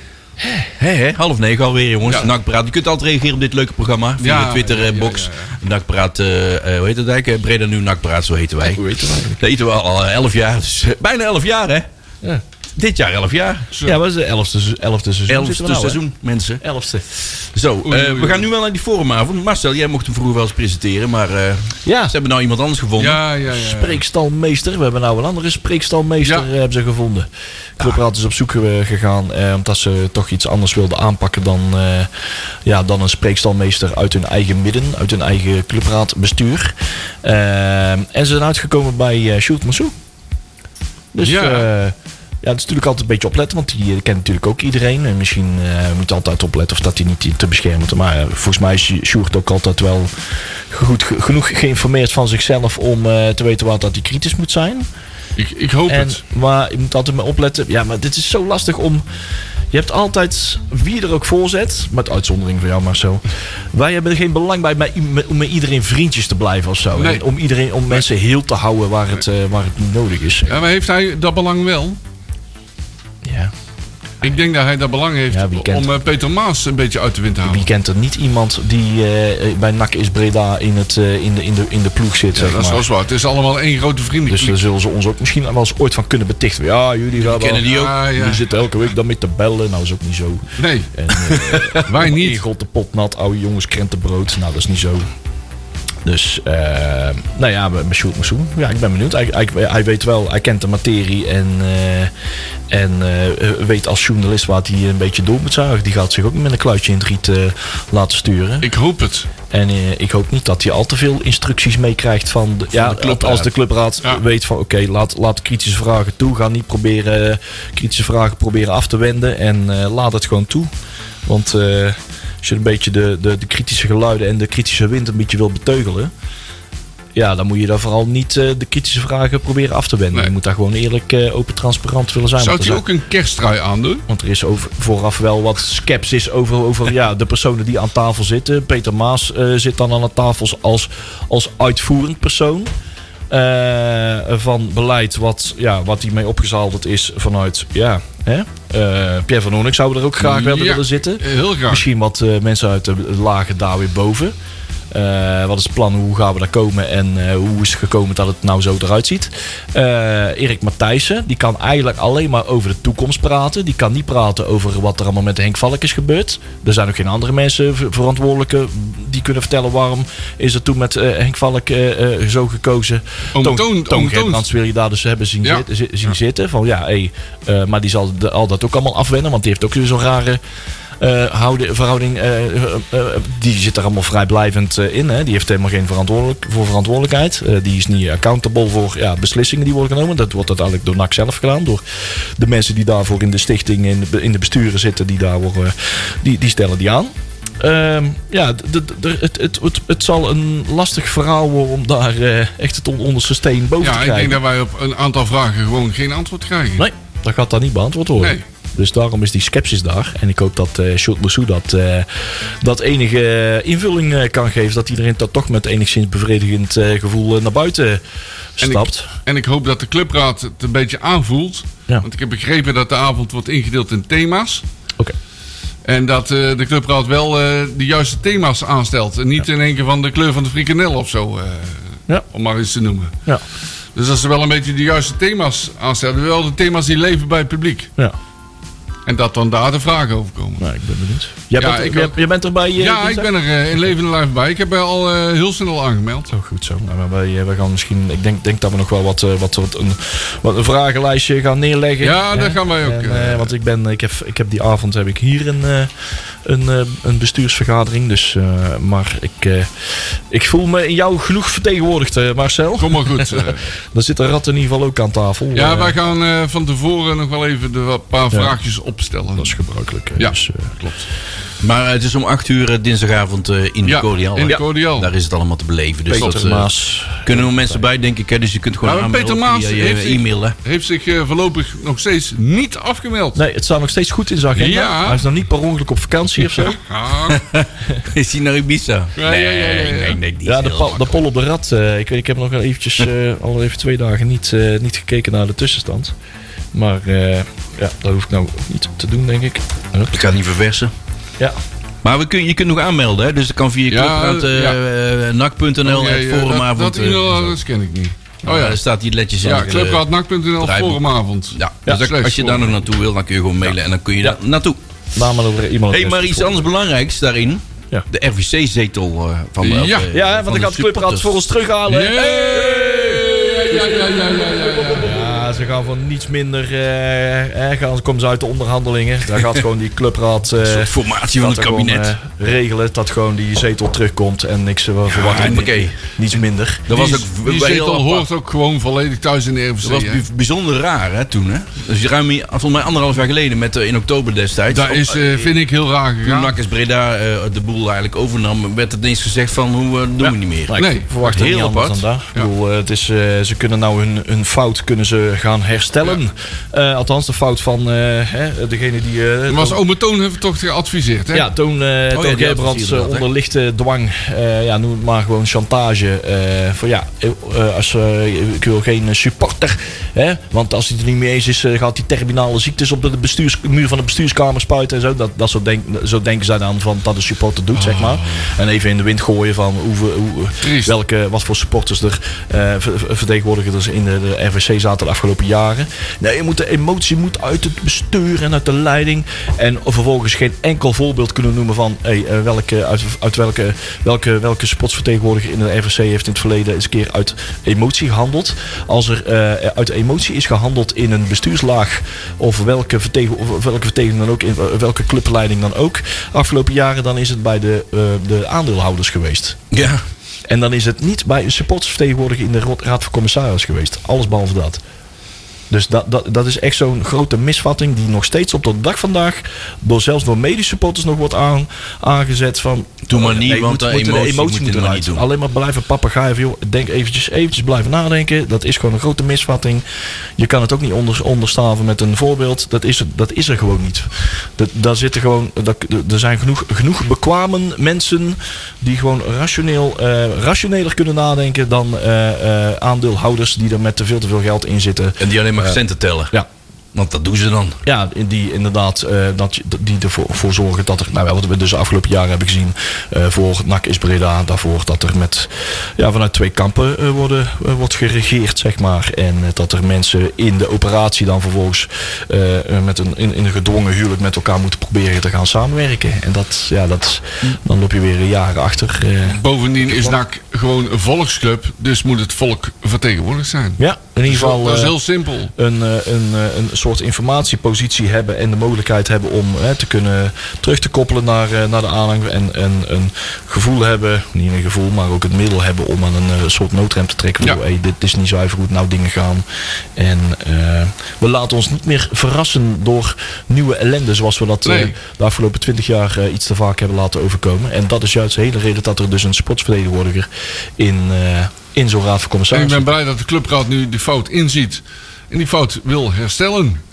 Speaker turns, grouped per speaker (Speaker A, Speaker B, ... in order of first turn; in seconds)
Speaker A: 0.4-0.7, 8.6-9.4, 13.8-16.0, 16.6-17.1, 21.9-22.1, 23.5-27.3, 27.8-32.1, 32.6-39.9, 41.1-50.1, 50.7-54.9, 55.9-59.0, 59.7-70.6, 73.2-73.5, 75.3-75.9, 77.4-82.9, 84.3-95.1, 96.0-102.1, 102.7-108.7, 109.5-120.7, 121.3-126.1, 127.2-132.8, 134.1-142.7, 143.3-154.3, 154.9-180.4, 181.0-204.4, 206.8-218.0, 218.6-219.1, 240.6-243.3, 246.3-255.9, 256.4-266.0, 269.4-270.8, 276.1-277.8, 283.4-286.8, 290.4-296.1, 296.7-300.2, 315.1-316.6, 320.1-323.8, 324.9-336.9, 350.2-359.8, 361.3-409.6, 410.5-414.8, 415.7-429.8, 430.4-445.8, 447.9-470.2, 473.8-475.0, 475.6-489.4, 490.0-502.9
Speaker B: 0.8-8.8, 9.4-11.9, 12.8-13.7, 15.3-16.6, 17.2-23.2, 87.2-88.0, 112.7-113.5, 271.6-276.7, 277.2-280.6, 287.3-291.2, 300.1-300.9, 302.0-307.6, 308.4-310.1, 310.6-314.8, 315.9-321.3, 330.6-332.2, 335.1-336.0, 336.9-338.3, 339.8-345.5, 346.2-352.0, 362.1-363.3, 409.7-410.0, 423.1-425.2, 445.2-446.3, 446.9-447.8
Speaker C: 4.2-5.6, 13.7-14.0, 17.9-18.5, 23.0-24.0, 41.2-41.7, 55.4-56.2, 67.0-67.2, 70.5-72.0, 74.2-77.7, 82.3-84.6, 87.6-88.5, 90.6-90.9, 91.8-92.4, 108.6-109.3, 132.4-134.1, 150.2-151.9, 173.3-174.5, 203.8-206.9, 208.2-208.4, 218.6-224.6, 225.8-233.1, 233.9-237.9, 239.1-240.7, 241.6-242.2, 242.8-246.3, 252.0-253.5, 262.8-263.6, 265.5-269.6, 270.2-271.1, 273.9-275.1, 276.1-276.4, 278.8-283.4, 284.6-285.2, 286.5-287.4, 289.2-290.2, 303.9-304.8, 305.9-308.8, 309.4-312.7, 319.6-320.1, 321.9-325.3, 336.9-340.2, 344.7-346.6, 350.8-351.1, 359.5-361.5, 377.7-378.5, 380.6-380.9, 469.3-475.5, 494.6-494.9, 502.5-506.8